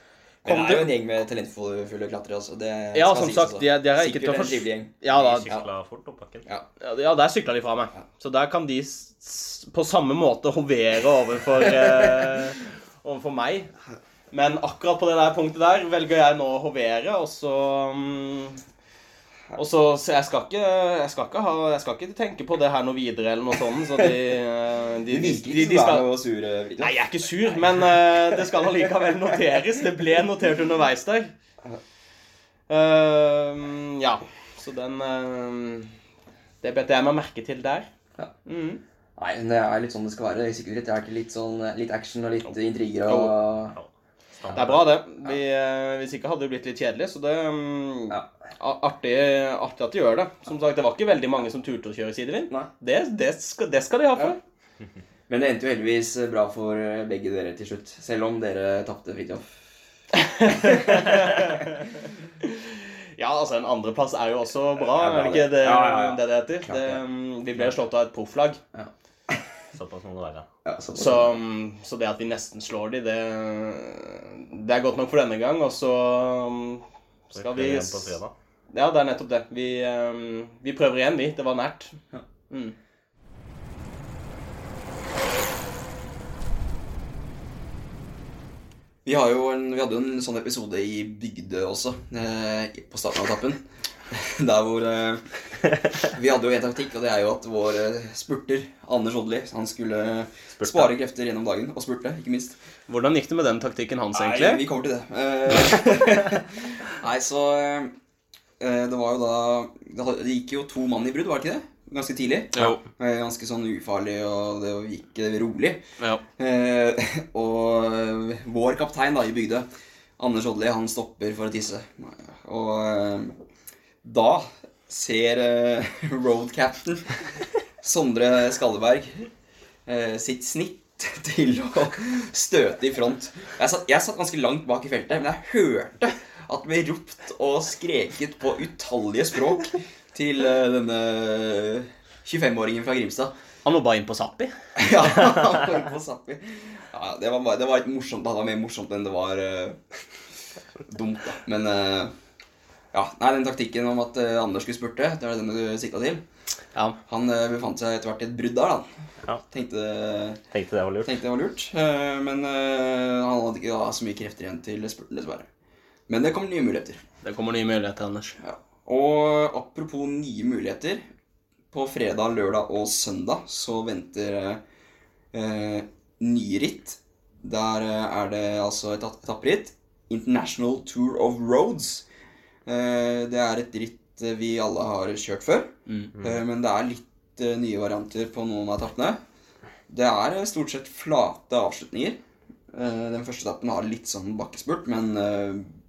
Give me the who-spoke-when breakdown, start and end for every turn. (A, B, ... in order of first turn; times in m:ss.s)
0:00.4-0:05.7 A
0:00.4-0:00.9 B
0:02.9-0:05.5 B
0:05.1-0:06.4 C
0:06.8-0:13.7 B
0:11.8-0:12.3 A
0:14.3-0:18.6 B
0:19.6-0:26.1 B
0:25.1-0:29.4 A
0:26.8-0:31.3 B
0:32.7-0:35.9 B
0:36.6-0:37.9 B
0:38.4-0:38.8 B
0:39.2-0:43.8 A
0:43.1-0:43.4 B
0:43.7-0:44.8 C
0:44.6-0:54.4 B
0:55.3-0:59.5 A
1:00.1-1:08.6 B
1:00.5-1:01.7 A
1:04.8-1:07.0 A
1:08.7-1:09.4 A
1:09.7-1:10.5 C
1:10.6-1:11.4 A
1:10.9-1:18.2 B
1:17.3-1:18.3 C
1:18.7-1:22.0 B
1:22.5-1:22.8 B
1:29.0-1:35.3 A
1:35.9-1:42.6 A
1:40.6-1:40.9 C
1:42.9-1:44.6 B
1:44.1-1:47.9 A
1:48.6-1:55.8 A
1:52.5-1:52.8 B
1:56.4-1:59.7 A
2:00.2-2:03.4 A
2:04.0-2:07.2 A
2:07.8-2:09.3 A
2:09.9-2:23.4 A
2:23.6-2:24.5 B
2:24.8-2:29.8 A
2:30.8-2:32.1 A
2:32.9-2:36.2 A
2:37.1-2:38.9 A
2:39.5-2:40.4 A
2:40.5-2:41.2 C
2:41.0-2:45.5 A
2:46.1-2:47.0 A
2:47.2-2:48.4 B
2:48.4-2:51.0 A
2:51.7-2:54.6 A
2:55.3-3:02.1 A
3:02.7-3:09.2 A
3:09.9-3:12.2 A
3:12.7-3:15.7 A